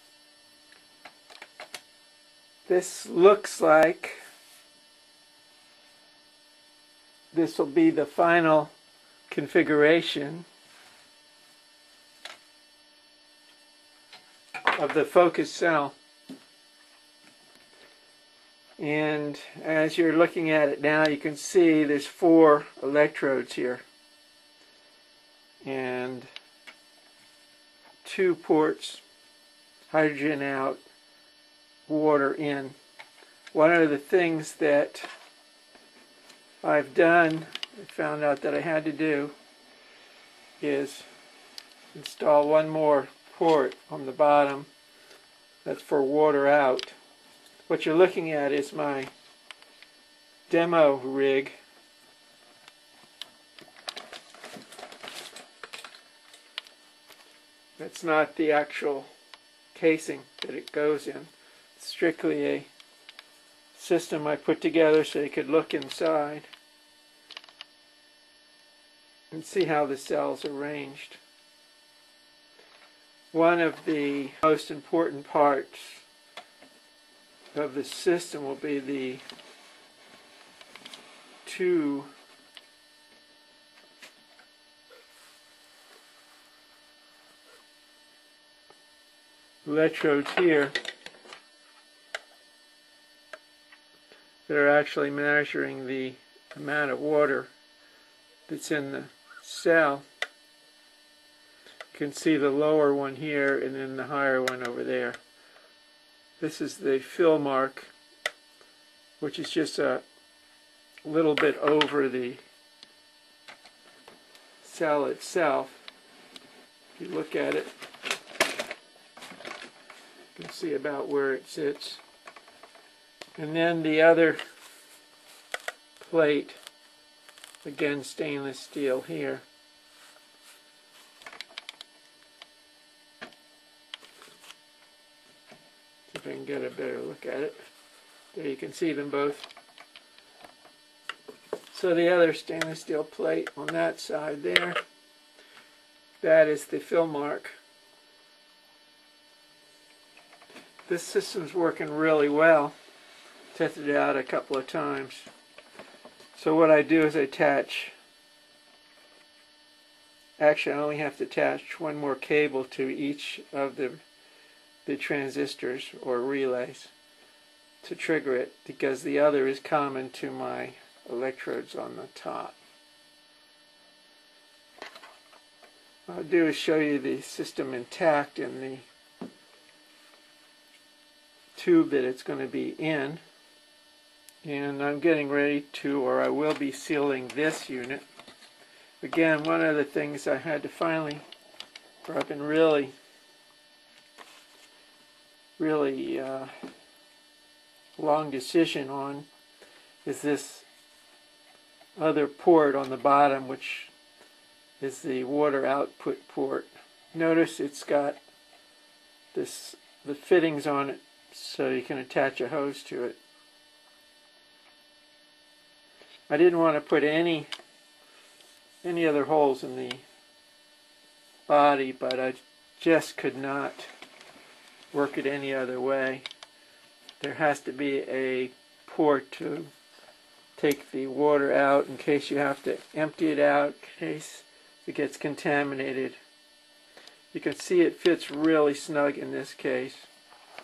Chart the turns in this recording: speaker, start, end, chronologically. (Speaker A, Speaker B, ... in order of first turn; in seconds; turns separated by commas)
Speaker A: 2.7-4.2, Speaker A: 7.3-8.7, Speaker A: 9.3-10.5, Speaker A: 14.7-15.9, Speaker A: 18.8-23.8, Speaker A: 25.6-26.3, Speaker A: 28.0-29.0, Speaker A: 29.9-30.8, Speaker A: 31.9-32.8, Speaker A: 33.5-35.1, Speaker A: 36.6-39.3, Speaker A: 40.6-41.1, Speaker A: 41.9-44.7, Speaker A: 45.6-47.0, Speaker A: 47.7-49.1, Speaker A: 50.5-51.5, Speaker A: 57.8-59.1, Speaker A: 59.7-62.7, Speaker A: 63.7-66.5, Speaker A: 69.3-71.2, Speaker A: 73.3-76.0, Speaker A: 77.5-79.2, Speaker A: 81.4-82.1, Speaker A: 89.6-90.7, Speaker A: 94.5-97.5, Speaker A: 98.5-100.1, Speaker A: 101.9-105.2, Speaker A: 106.4-107.9, Speaker A: 109.2-110.0, Speaker A: 111.0-112.4, Speaker A: 114.6-115.8, Speaker A: 117.0-117.7, Speaker A: 120.3-122.0, Speaker A: 123.4-124.4, Speaker A: 126.0-126.6, Speaker A: 127.6-129.4, Speaker A: 136.1-137.6, Speaker A: 138.3-139.5, Speaker A: 141.7-144.8, Speaker A: 146.2-147.6, Speaker A: 150.9-152.7, Speaker A: 153.5-155.3, Speaker A: 156.3-157.9, Speaker A: 160.4-164.0, Speaker A: 164.8-166.9, Speaker A: 167.8-172.6, Speaker A: 176.1-178.9, Speaker A: 181.5-183.2, Speaker A: 184.4-188.0, Speaker A: 189.0-191.2, Speaker A: 192.0-192.9, Speaker A: 195.6-196.5, Speaker A: 198.0-199.3, Speaker A: 200.0-200.7, Speaker A: 202.0-203.9, Speaker A: 204.8-208.2, Speaker A: 209.3-213.2, Speaker A: 216.3-217.5, Speaker A: 218.8-220.0, Speaker A: 221.5-223.9, Speaker A: 224.9-226.2, Speaker A: 227.2-229.7, Speaker A: 230.6-236.2, Speaker A: 237.3-240.1